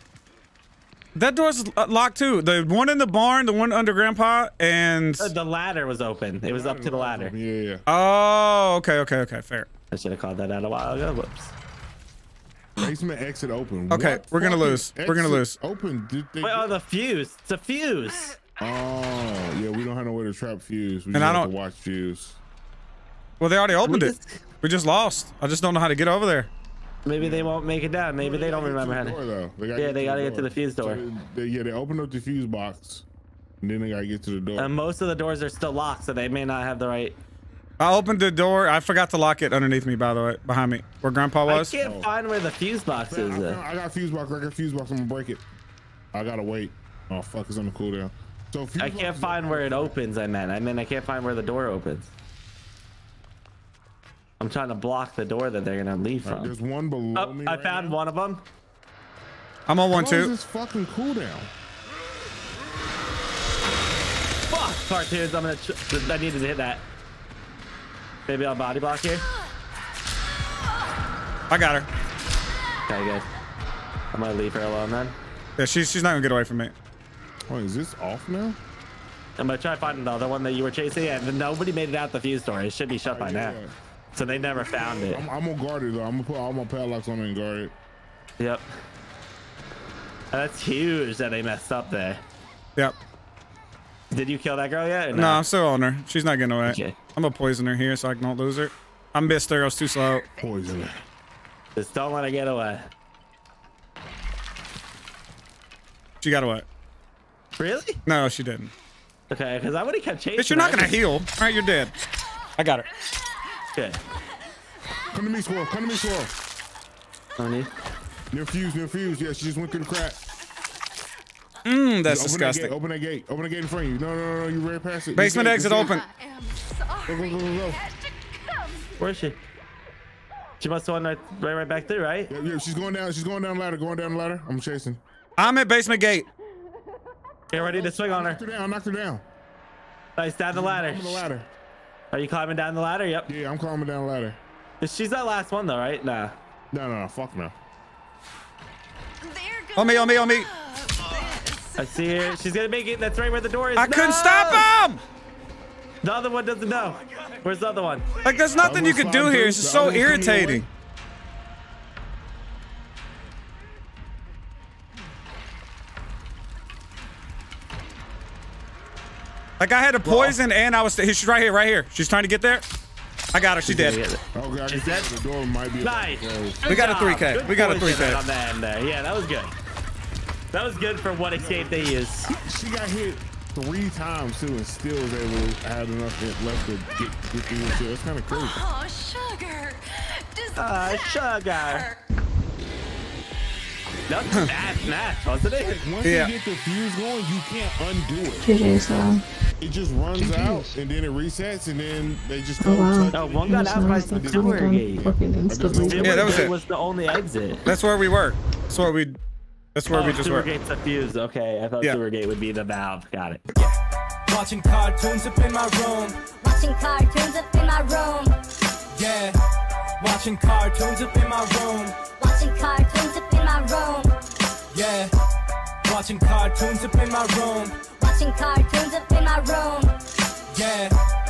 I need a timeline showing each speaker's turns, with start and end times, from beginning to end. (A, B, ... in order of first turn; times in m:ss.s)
0:01.2-0:05.3 A
0:05.2-0:07.3 B
0:06.5-0:07.8 C
0:07.9-0:09.7 A
0:09.9-0:11.5 B
0:12.8-0:16.8 C
0:13.9-0:15.6 A
0:16.4-0:18.4 B
0:18.6-0:22.4 C
0:21.1-0:21.5 A
0:23.4-0:26.5 A
0:23.8-0:24.3 B
0:27.1-0:29.2 B
0:27.2-0:27.6 C
0:28.2-0:33.0 C
0:29.8-0:31.0 B
0:33.6-0:34.7 C
0:34.6-0:37.2 B
0:37.8-0:41.7 A
0:41.5-0:43.6 B
0:41.8-0:42.1 C
0:43.0-0:45.4 C
0:46.1-0:50.0 C
0:48.8-0:52.1 B
0:54.4-0:56.5 B
0:56.2-0:58.0 C
0:57.2-0:58.4 B
0:59.7-1:00.3 A
0:59.9-1:01.5 C
1:04.5-1:06.9 B
1:08.3-1:09.3 B
1:11.5-1:11.9 A
1:12.9-1:13.3 B
1:14.1-1:15.2 B
1:15.6-1:16.7 A
1:17.5-1:18.6 C
1:19.4-1:23.6 B
1:23.0-1:27.7 C
1:24.1-1:25.2 B
1:28.4-1:28.6 B
1:30.3-1:32.2 B
1:34.1-1:35.4 B
1:35.1-1:40.3 A
1:36.6-1:37.0 B
1:40.4-1:41.0 C
1:41.8-1:42.9 B
1:46.2-1:46.7 A
1:47.6-1:48.0 B
1:48.1-1:48.7 A
1:49.3-1:51.0 B
1:50.4-1:52.0 A
1:52.6-1:52.9 A
1:55.1-1:56.4 C
1:57.4-1:57.7 B
1:58.3-2:00.2 C
2:01.6-2:02.7 A
2:02.0-2:06.0 C
2:05.2-2:06.0 A
2:05.7-2:09.0 D
2:07.1-2:07.8 C
2:09.0-2:09.4 B
2:10.6-2:12.3 B
2:12.3-2:15.0 C
2:15.4-2:16.3 A
2:17.5-2:18.4 B
2:17.5-2:19.2 C
2:20.2-2:21.2 B
2:20.5-2:21.5 C
2:22.1-2:23.3 B
2:23.3-2:24.4 C
2:24.8-2:26.4 B
2:26.7-2:27.6 C
2:29.2-2:32.4 D
2:29.8-2:30.5 A
2:31.8-2:34.7 B
2:33.8-2:35.0 A
2:36.0-2:38.1 B
2:38.2-2:40.7 A
2:38.6-2:40.7 C
2:49.6-2:52.6 A
2:50.0-2:50.4 B
2:53.3-2:54.0 A
2:53.6-2:55.1 B
2:54.3-2:56.6 C
2:55.8-2:59.6 B
2:56.7-2:58.2 A
3:00.5-3:02.3 B
3:01.4-3:08.6 C
3:08.3-3:12.1 D
3:10.6-3:11.9 B
3:14.1-3:15.8 B
3:15.6-3:18.8 C
3:16.0-3:16.3 A
3:18.4-3:19.2 E
3:19.6-3:26.5 C
3:22.6-3:26.4 E
3:23.1-3:25.0 B
3:25.8-3:27.7 B
3:26.0-3:26.5 A
3:27.6-3:29.2 A
3:29.8-3:30.5 A
3:29.9-3:33.4 B
3:34.3-3:36.2 F
3:36.4-3:38.3 G
3:38.9-3:39.4 F
3:40.0-3:42.0 F
3:42.2-3:44.1 G
3:44.7-3:45.1 F
3:45.9-3:47.8 F
3:48.0-3:49.9 G
3:50.5-3:51.0 F